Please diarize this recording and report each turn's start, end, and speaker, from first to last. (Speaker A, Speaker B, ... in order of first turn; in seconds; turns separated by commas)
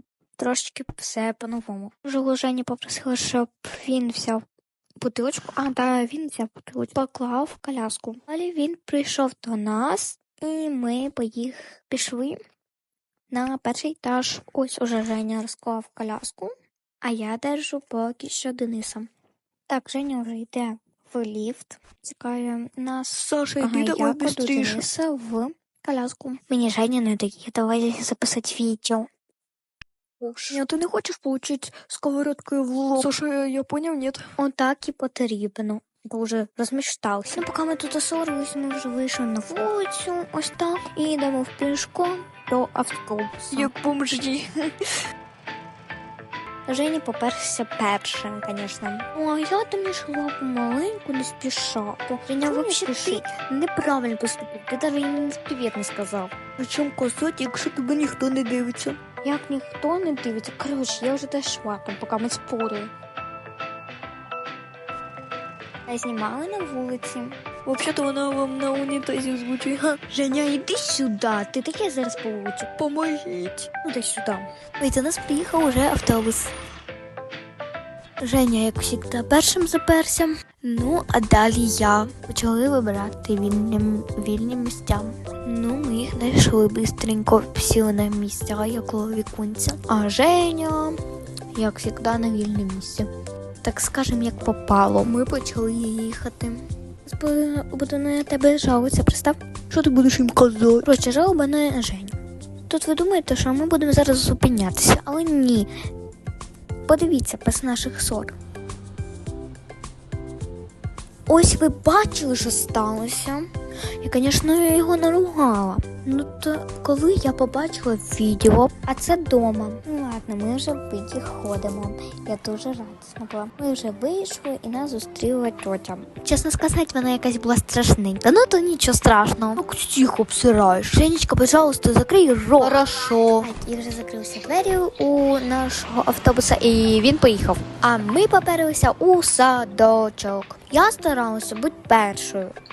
Speaker A: 0.4-4.4, Speaker A: 5.0-12.4, Speaker A: 13.3-19.1, Speaker A: 19.7-29.1, Speaker B: 23.2-24.8, Speaker B: 30.4-34.2, Speaker A: 34.4-43.7, Speaker B: 43.5-44.5, Speaker A: 46.7-56.4, Speaker B: 52.5-53.4, Speaker B: 56.6-59.0, Speaker A: 59.2-62.9, Speaker A: 65.9-67.4, Speaker B: 67.7-70.1, Speaker A: 70.0-72.8, Speaker B: 72.8-73.7, Speaker A: 73.7-76.5, Speaker A: 78.2-91.0, Speaker A: 91.5-93.1, Speaker A: 93.6-99.4, Speaker B: 99.7-100.8, Speaker A: 100.8-102.2, Speaker A: 102.7-105.7, Speaker A: 106.9-108.3, Speaker A: 111.3-113.5, Speaker A: 114.0-142.5, Speaker B: 129.7-131.6, Speaker B: 132.5-133.5